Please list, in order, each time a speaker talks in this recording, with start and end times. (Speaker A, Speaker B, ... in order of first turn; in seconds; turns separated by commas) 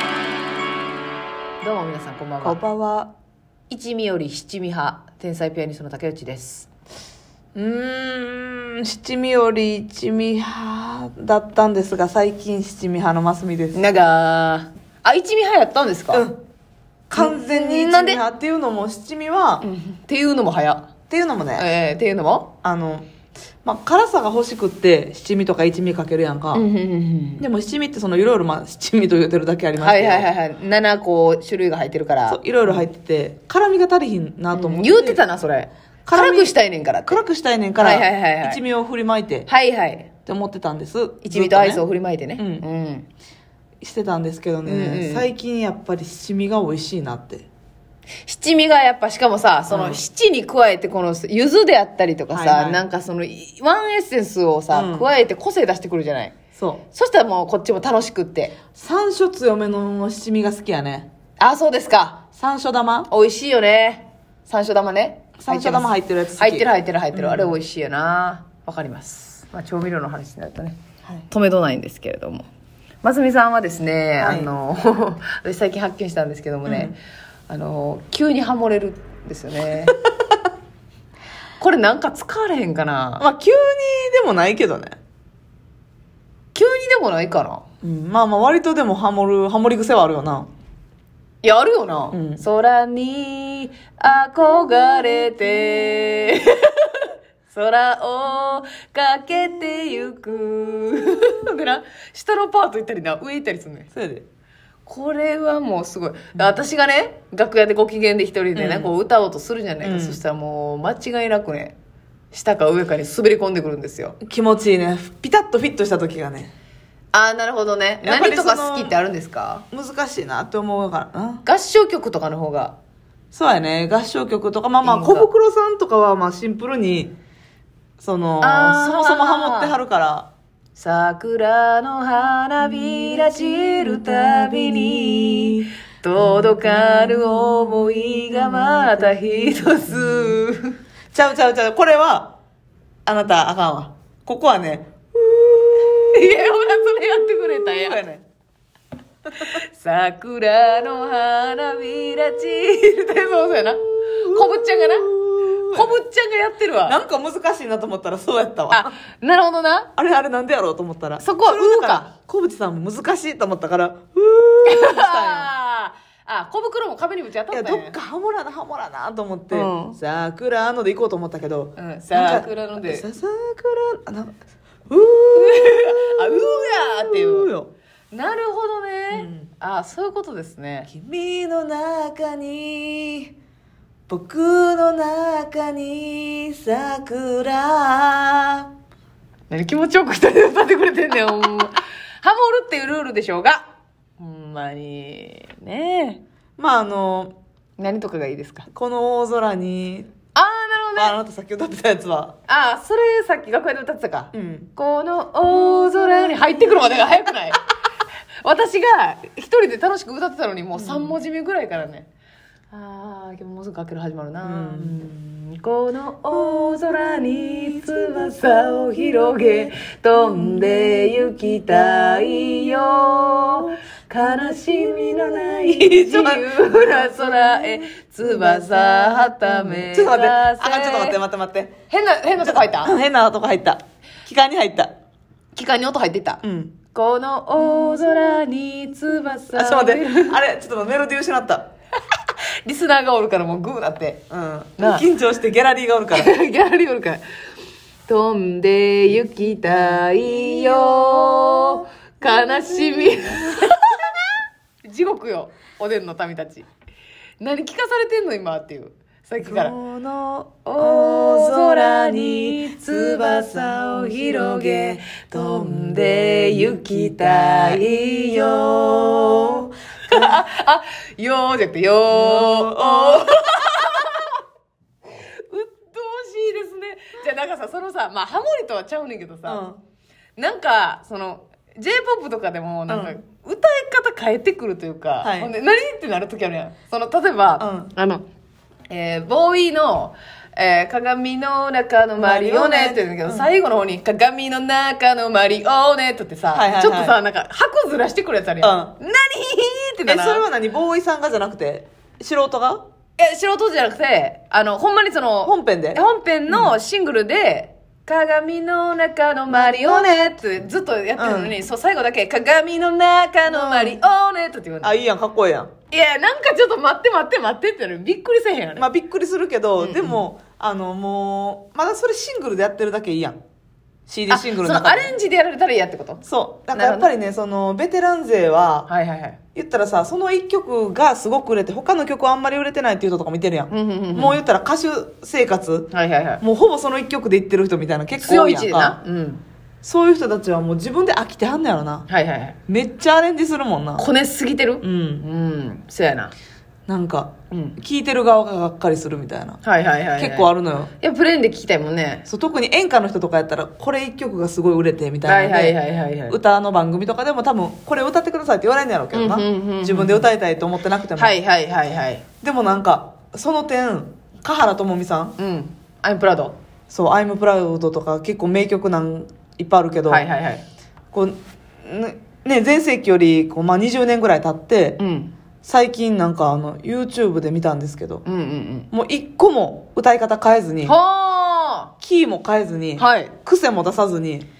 Speaker A: 1.6-2.6, Speaker B: 2.4-3.1, Speaker A: 3.7-6.7, Speaker B: 7.5-13.8, Speaker A: 13.7-16.3, Speaker B: 16.1-16.4, Speaker B: 17.1-19.7, Speaker A: 17.1-18.2, Speaker A: 19.6-20.9, Speaker B: 21.1-21.7, Speaker A: 21.6-22.5, Speaker B: 22.6-23.1, Speaker B: 23.6-26.6, Speaker A: 26.5-27.4, Speaker B: 27.4-30.3, Speaker A: 29.8-32.8, Speaker B: 32.3-35.2, Speaker A: 34.5-37.2, Speaker B: 36.1-36.5, Speaker B: 37.1-39.5, Speaker A: 37.8-38.6, Speaker A: 39.5-40.1, Speaker B: 40.3-41.8, Speaker A: 41.2-43.1, Speaker B: 42.4-42.7, Speaker B: 43.8-47.5, Speaker A: 44.6-45.3, Speaker A: 48.3-56.4, Speaker B: 49.7-50.0, Speaker B: 52.3-52.8, Speaker B: 54.7-55.1, Speaker B: 56.6-56.8, Speaker A: 56.9-58.5, Speaker B: 58.8-61.1, Speaker A: 61.4-62.2, Speaker B: 62.4-63.1, Speaker A: 63.1-70.8, Speaker B: 65.4-67.6, Speaker A: 71.3-72.5, Speaker A: 73.0-77.0, Speaker B: 74.2-74.5, Speaker B: 76.7-76.9, Speaker A: 77.5-80.0, Speaker A: 81.6-83.3, Speaker B: 83.2-85.0, Speaker A: 86.5-87.6, Speaker B: 87.8-90.5, Speaker A: 91.4-103.9, Speaker B: 92.1-92.4, Speaker B: 103.9-104.2, Speaker A: 104.9-111.8, Speaker B: 108.5-108.9, Speaker B: 109.8-110.2, Speaker A: 112.3-114.2, Speaker B: 114.2-116.5, Speaker A: 117.1-119.7, Speaker B: 118.0-119.0, Speaker B: 119.7-121.4, Speaker A: 121.5-122.8, Speaker B: 123.3-127.1, Speaker A: 124.8-125.3, Speaker B: 128.0-130.3, Speaker A: 128.4-129.8, Speaker A: 130.8-140.8, Speaker B: 132.6-140.4, Speaker B: 141.1-142.4, Speaker B: 143.1-148.2, Speaker A: 146.1-148.0, Speaker A: 149.4-155.1, Speaker B: 154.0-156.0, Speaker A: 155.7-157.0, Speaker B: 156.9-159.0, Speaker A: 158.7-159.9, Speaker B: 160.0-165.5, Speaker A: 161.2-162.1, Speaker A: 164.7-167.9, Speaker B: 167.5-174.3, Speaker A: 169.5-170.0, Speaker A: 171.8-173.1, Speaker B: 174.9-177.7, Speaker A: 175.3-177.5, Speaker A: 178.1-180.9, Speaker B: 179.1-179.5, Speaker B: 180.9-183.3, Speaker B: 184.1-188.7, Speaker A: 189.5-193.6, Speaker A: 194.2-196.2, Speaker B: 196.6-197.4, Speaker A: 197.8-198.7, Speaker B: 198.7-200.1, Speaker A: 200.3-201.2, Speaker B: 201.0-202.4, Speaker A: 202.5-207.6, Speaker B: 204.3-204.7, Speaker B: 205.7-207.2, Speaker A: 208.4-212.1, Speaker B: 210.8-211.2, Speaker A: 212.7-231.2, Speaker B: 214.4-215.1, Speaker B: 216.3-222.9, Speaker B: 223.4-223.7, Speaker B: 225.2-231.8, Speaker A: 231.9-232.9, Speaker B: 232.4-234.9, Speaker A: 235.6-240.4, Speaker B: 236.4-236.8, Speaker B: 237.7-238.1, Speaker B: 239.5-241.7, Speaker A: 242.7-244.2, Speaker B: 244.3-246.3, Speaker A: 244.8-245.1, Speaker A: 246.1-247.2, Speaker A: 248.1-256.7, Speaker B: 250.1-253.5, Speaker A: 257.4-259.8, Speaker B: 259.4-270.4, Speaker A: 260.6-274.4, Speaker B: 272.1-273.3, Speaker A: 275.5-279.6, Speaker B: 279.5-279.8, Speaker A: 280.4-288.2, Speaker B: 282.9-283.1, Speaker B: 285.2-285.5, Speaker B: 287.6-287.9, Speaker A: 288.9-300.5, Speaker B: 292.2-293.5, Speaker B: 296.5-297.2, Speaker B: 298.6-298.9, Speaker B: 300.1-302.8, Speaker A: 303.2-314.9, Speaker B: 305.4-306.7, Speaker B: 309.5-310.2, Speaker B: 311.2-311.6, Speaker B: 313.5-314.0, Speaker B: 314.8-315.7, Speaker A: 315.9-318.9, Speaker B: 318.8-323.4, Speaker A: 319.8-320.2, Speaker B: 324.1-325.1, Speaker A: 324.3-326.2, Speaker B: 326.2-328.9, Speaker A: 326.7-327.1, Speaker A: 328.9-329.4, Speaker B: 329.6-339.0, Speaker A: 333.7-334.4, Speaker A: 335.9-336.4, Speaker A: 338.2-339.4, Speaker B: 339.8-342.1, Speaker A: 342.1-342.6, Speaker B: 342.7-344.1, Speaker A: 344.0-346.3, Speaker B: 344.8-345.2, Speaker B: 346.9-349.6, Speaker A: 347.5-347.8, Speaker A: 349.6-352.2, Speaker B: 350.2-350.9, Speaker B: 352.3-355.8, Speaker A: 355.3-356.4, Speaker B: 356.3-361.3, Speaker A: 359.1-360.3, Speaker A: 361.2-362.2, Speaker B: 362.4-365.4, Speaker A: 365.4-366.6, Speaker B: 366.9-370.3, Speaker A: 370.1-370.6, Speaker B: 371.1-375.0, Speaker A: 375.0-375.3, Speaker B: 375.6-378.2, Speaker A: 378.2-378.9, Speaker B: 378.9-381.0, Speaker A: 380.9-381.9, Speaker B: 382.0-384.5, Speaker A: 383.0-383.3